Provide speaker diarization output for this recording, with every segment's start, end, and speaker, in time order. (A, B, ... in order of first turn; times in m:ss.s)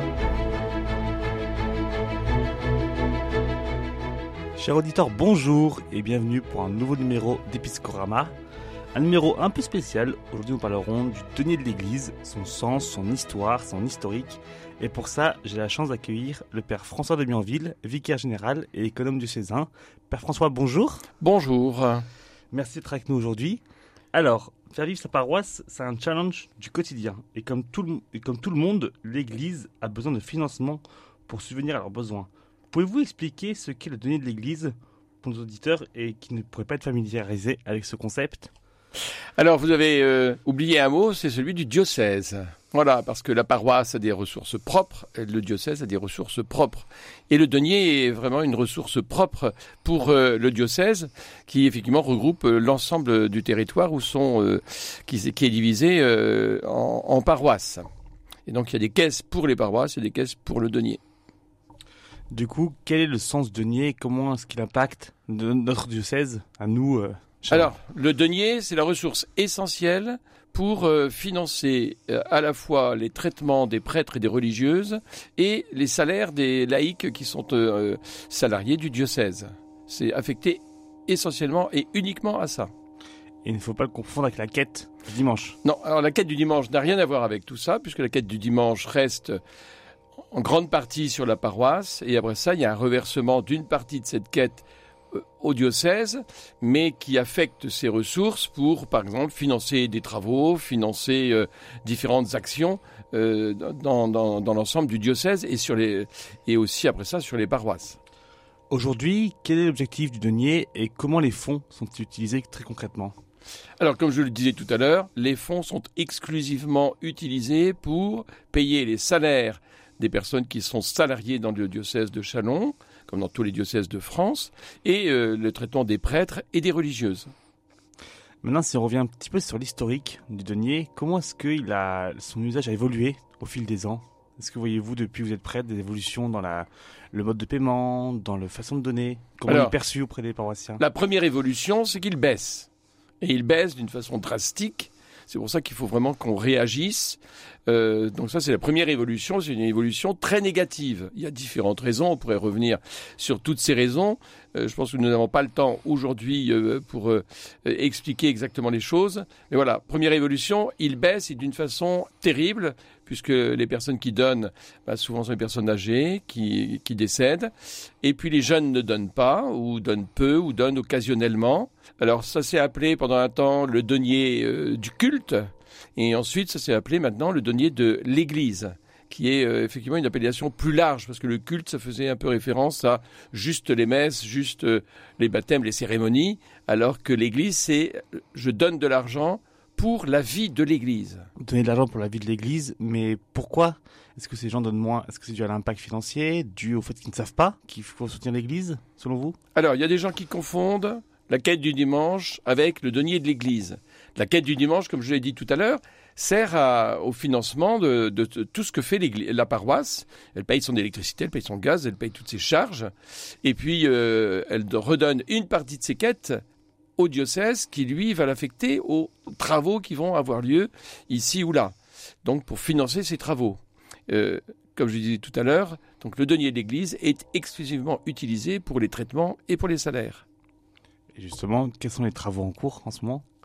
0:04.6-0:08.3 A
0:08.9-0:21.0 A
0:21.2-0:22.0 B
0:22.5-0:23.6 A
0:24.1-0:38.5 A
0:39.4-0:57.8 B
0:58.5-1:01.0 B
1:02.3-1:07.7 A
1:07.5-1:22.7 B
1:23.4-1:25.6 A
1:25.6-1:29.4 B
1:30.3-1:48.0 B
1:48.7-1:53.1 A
1:53.8-2:07.3 B
2:08.4-2:20.8 A
2:19.5-2:19.8 B
2:20.8-2:22.7 B
2:23.2-2:47.5 B
2:48.0-3:11.3 B
3:11.4-3:19.4 A
3:19.5-3:32.9 B
3:33.4-3:36.4 B
3:37.0-3:50.2 B
3:51.1-3:53.2 A